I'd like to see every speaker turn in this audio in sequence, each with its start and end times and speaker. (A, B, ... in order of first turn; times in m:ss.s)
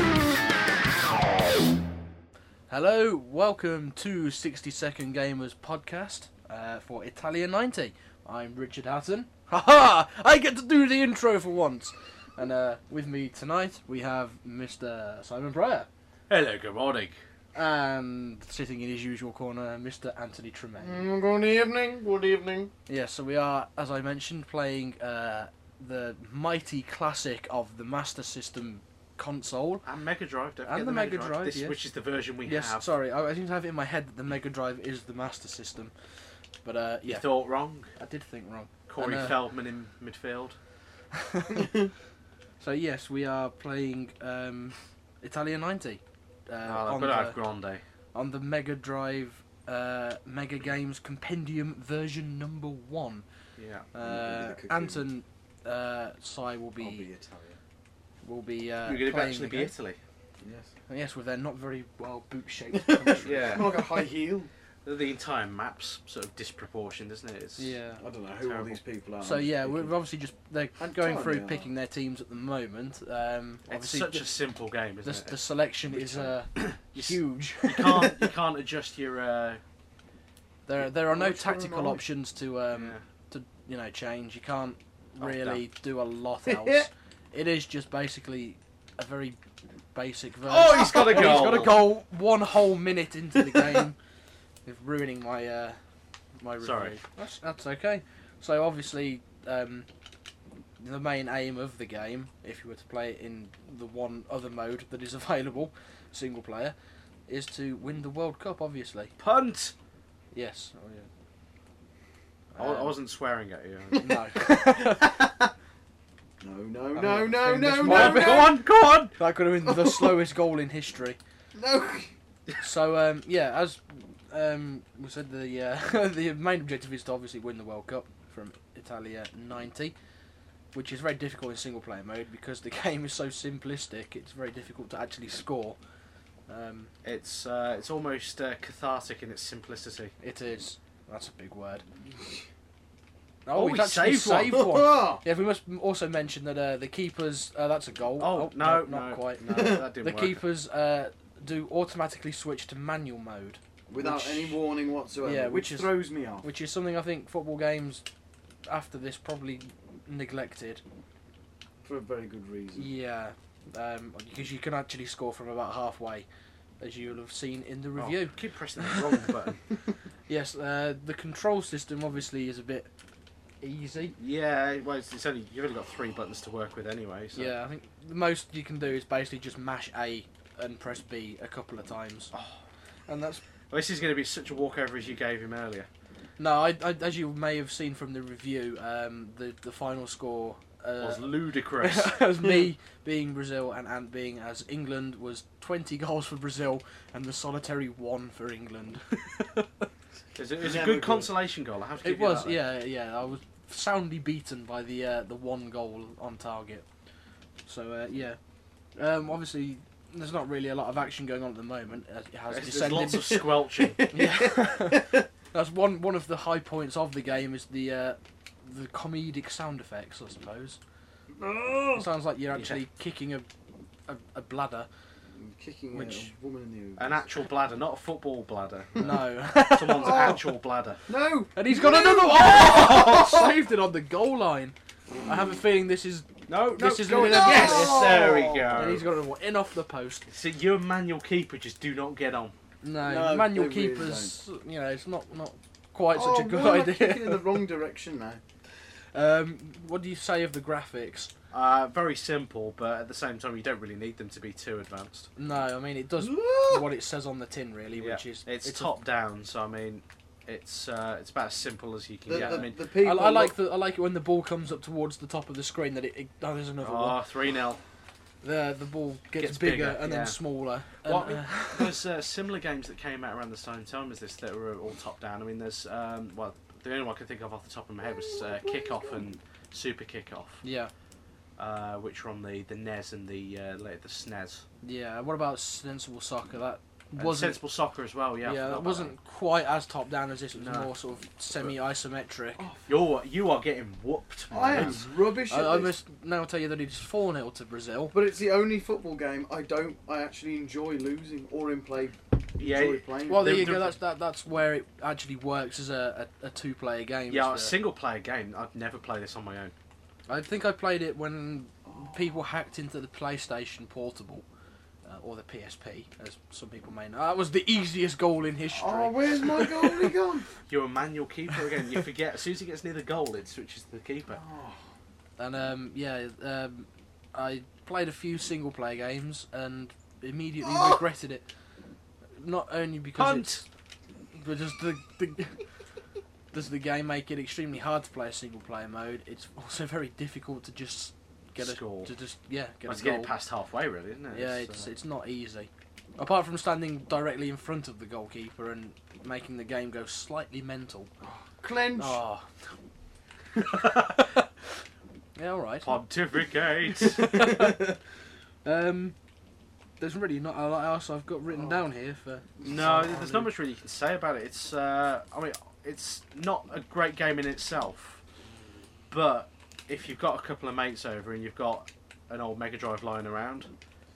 0:02.7-0:15.9 A
0:16.3-0:17.2 B
0:17.5-0:21.0 A
0:20.8-0:22.7 C
0:22.9-0:29.8 A
0:29.8-0:32.8 B
0:30.6-0:31.8 A
0:32.4-0:35.9 A
0:36.6-0:37.3 A
0:37.0-0:37.9 B
0:37.8-0:39.4 A
0:38.9-0:40.6 B
0:41.3-0:41.6 A
0:41.5-0:41.9 C
0:42.6-0:47.4 A
0:46.6-0:47.8 B
0:48.1-0:53.2 A
0:53.6-0:53.9 B
0:53.9-0:57.0 A
0:54.0-0:55.0 C
0:56.8-0:57.6 C
0:58.2-0:59.7 A
0:58.8-1:00.0 B
1:00.4-1:00.7 C
1:00.9-1:03.8 A
1:02.7-1:04.5 C
1:03.2-1:03.7 B
1:04.8-1:07.7 B
1:07.6-1:08.0 A
1:08.0-1:09.9 C
1:08.4-1:08.8 B
1:09.2-1:14.4 A
1:10.8-1:11.7 C
1:13.7-1:19.6 B
1:15.0-1:18.2 A
1:20.6-1:29.4 A
1:20.8-1:22.0 C
1:22.7-1:23.0 B
1:25.2-1:25.6 B
1:26.4-1:26.9 C
1:29.9-1:34.0 A
1:30.4-1:31.9 B
1:30.6-1:31.8 C
1:33.4-1:33.8 C
1:34.6-1:35.8 A
1:36.4-1:39.9 A
1:36.6-1:37.0 B
1:40.8-1:46.7 A
1:47.3-1:49.1 A
1:49.2-1:49.7 B
1:50.3-1:51.1 A
1:52.5-1:53.0 A
1:52.6-1:54.0 B
1:53.9-1:55.3 C
1:54.0-1:55.3 A
1:56.4-1:58.6 C
1:56.9-2:01.2 A
1:57.8-1:59.1 B
1:59.6-2:00.2 C
2:01.5-2:02.1 C
2:02.6-2:09.9 A
2:10.7-2:15.8 A
2:16.5-2:16.9 A
2:17.0-2:20.1 B
2:20.2-2:21.8 A
2:22.1-2:22.4 C
2:23.4-2:34.6 A
2:23.5-2:24.6 B
2:24.5-2:25.2 C
2:28.2-2:30.4 B
2:29.5-2:29.8 C
2:33.9-2:36.5 C
2:35.2-2:38.0 A
2:38.7-2:40.8 A
2:41.8-2:42.9 C
2:42.8-2:46.3 A
2:46.8-2:49.3 A
2:48.0-2:49.6 B
2:50.3-2:52.9 A
2:53.6-2:54.1 A
2:54.2-2:57.6 B
2:57.3-3:02.3 A
3:02.3-3:02.6 B
3:03.1-3:03.4 A
3:03.7-3:05.9 B
3:06.4-3:19.8 A
3:11.0-3:12.2 B
3:20.3-3:22.6 B
3:20.6-3:21.3 C
3:22.0-3:26.8 A
3:27.6-3:28.4 A
3:29.0-3:33.4 A
3:32.5-3:34.1 B
3:33.3-3:35.2 C
3:34.1-3:40.8 A
3:41.4-3:42.0 C
3:41.9-3:43.5 A
3:42.5-3:42.8 B
3:44.1-3:44.9 A
3:45.3-3:47.3 C
3:45.9-3:46.3 A
3:47.0-3:49.2 B
3:49.0-3:50.4 A
3:49.7-3:51.0 B
3:49.9-3:50.5 C
3:51.0-3:53.6 C
3:51.6-4:00.3 A
3:55.1-3:55.6 C
3:56.5-3:59.1 B
3:57.1-3:59.0 C
4:00.3-4:02.5 B
4:02.8-4:07.6 A
4:03.0-4:04.4 C
4:06.1-4:08.4 C
4:09.1-4:11.3 A
4:11.5-4:15.3 B
4:15.4-4:19.0 A
4:16.2-4:16.9 C
4:18.0-4:22.7 B
4:22.2-4:23.6 C
4:22.3-4:27.2 A
4:26.8-4:27.8 B
4:28.4-4:32.0 A
4:29.4-4:30.4 B
4:31.0-4:40.6 B
4:38.0-4:39.3 C
4:40.6-4:40.9 A
4:41.6-4:44.6 B
4:44.8-4:47.6 A
4:47.1-4:49.1 B
4:48.4-4:52.6 A
4:50.6-4:50.9 B
4:52.6-4:52.9 C
4:52.9-4:55.0 B
4:54.5-4:56.0 C
4:55.5-4:58.1 A
4:58.1-5:03.7 C
5:02.6-5:04.0 B
5:03.3-5:07.7 A
5:07.3-5:09.7 B
5:10.3-5:14.4 A
5:11.8-5:12.2 C
5:15.0-5:20.1 A
5:18.7-5:20.5 C
5:20.7-5:24.4 B
5:24.3-5:24.8 C
5:25.4-5:31.4 A
5:30.6-5:31.0 C
5:32.4-5:33.6 A
5:33.2-5:33.6 B
5:34.3-5:35.6 A
5:36.5-5:43.3 A
5:41.6-5:42.1 B
5:42.8-5:44.9 B
5:44.3-5:51.1 A
5:51.2-5:52.2 C
5:52.0-5:52.5 A
5:53.8-5:54.1 B
5:55.4-5:55.9 A
5:55.8-5:57.3 B
5:57.0-5:58.0 A
5:57.3-5:57.8 C
5:58.6-5:59.1 A
6:00.0-6:02.5 A
6:02.6-6:03.5 C
6:02.6-6:08.2 B
6:09.1-6:13.7 B